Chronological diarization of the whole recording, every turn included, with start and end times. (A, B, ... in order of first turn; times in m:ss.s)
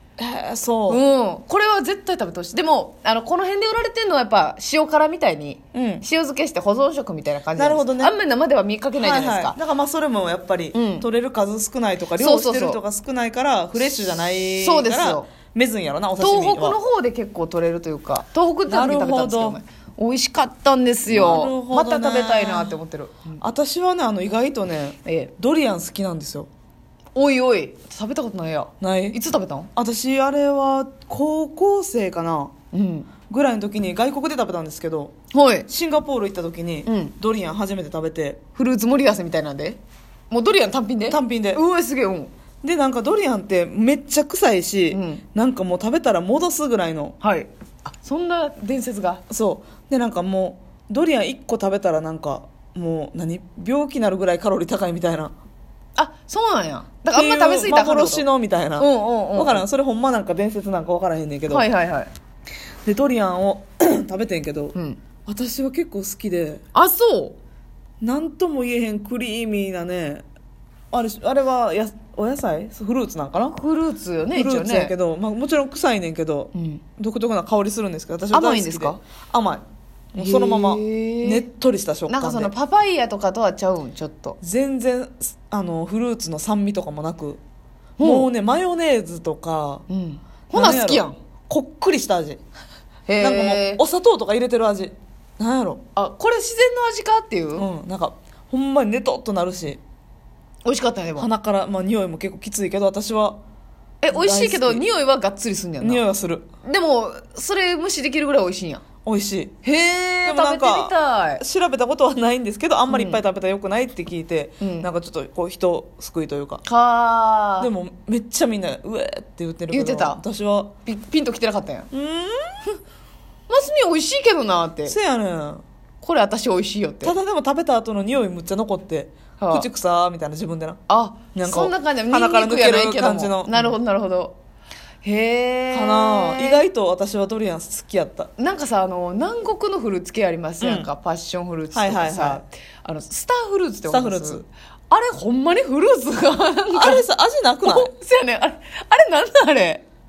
0:00.2-0:01.0 A
0:00.9-0:09.6 B
0:05.7-0:06.0 A
0:07.6-0:08.1 A
0:09.0-0:16.8 A
0:10.7-0:11.0 B
0:12.2-0:12.8 B
0:14.6-0:15.3 B
0:16.2-0:23.4 B
0:18.7-0:19.6 A
0:21.0-0:22.8 A
0:23.4-0:26.5 A
0:25.0-0:25.3 B
0:27.1-0:29.7 B
0:28.8-0:29.2 A
0:29.7-0:32.5 A
0:32.7-0:33.1 B
0:33.3-0:35.1 A
0:35.3-0:35.7 B
0:35.7-0:38.4 A
0:36.8-0:37.1 B
0:38.6-0:42.3 B
0:41.1-0:41.6 A
0:42.6-0:47.2 A
0:44.9-0:45.2 B
0:47.2-0:49.2 B
0:49.3-0:55.3 A
0:56.0-0:58.2 B
0:57.1-1:01.7 A
0:58.8-0:59.6 B
1:01.5-1:02.1 B
1:02.8-1:04.7 A
1:04.7-1:05.0 B
1:05.3-1:06.6 A
1:06.7-1:07.4 B
1:08.0-1:10.2 A
1:10.9-1:13.6 A
1:13.5-1:14.9 B
1:14.3-1:22.5 A
1:16.5-1:16.8 B
1:18.3-1:19.0 B
1:20.2-1:21.4 B
1:22.1-1:24.4 B
1:24.4-1:27.4 A
1:28.0-1:28.3 B
1:28.0-1:29.8 A
1:29.9-1:31.1 B
1:30.5-1:32.4 A
1:33.1-1:33.8 B
1:33.2-1:35.8 A
1:36.0-1:37.7 B
1:37.6-1:39.8 A
1:40.6-1:41.3 B
1:41.2-1:43.4 A
1:44.0-1:46.0 B
1:44.1-1:44.8 A
1:45.8-1:46.5 A
1:46.6-1:48.8 B
1:49.0-1:49.5 A
1:49.6-1:51.4 B
1:50.2-1:56.6 A
1:52.9-1:53.2 B
1:54.6-1:54.9 B
1:56.6-1:57.7 B
1:57.6-2:00.7 A
1:59.7-2:00.2 B
2:00.8-2:01.9 B
2:01.9-2:02.7 A
2:03.5-2:05.0 B
2:04.9-2:05.6 A
2:06.0-2:07.1 B
2:07.0-2:10.8 A
2:09.4-2:09.7 B
2:10.9-2:14.4 B
2:11.3-2:13.8 A
2:15.0-2:16.6 B
2:15.7-2:18.3 A
2:18.4-2:27.0 B
2:20.6-2:20.9 A
2:21.7-2:22.4 A
2:23.9-2:24.4 A
2:26.7-2:27.9 A
2:27.6-2:29.8 B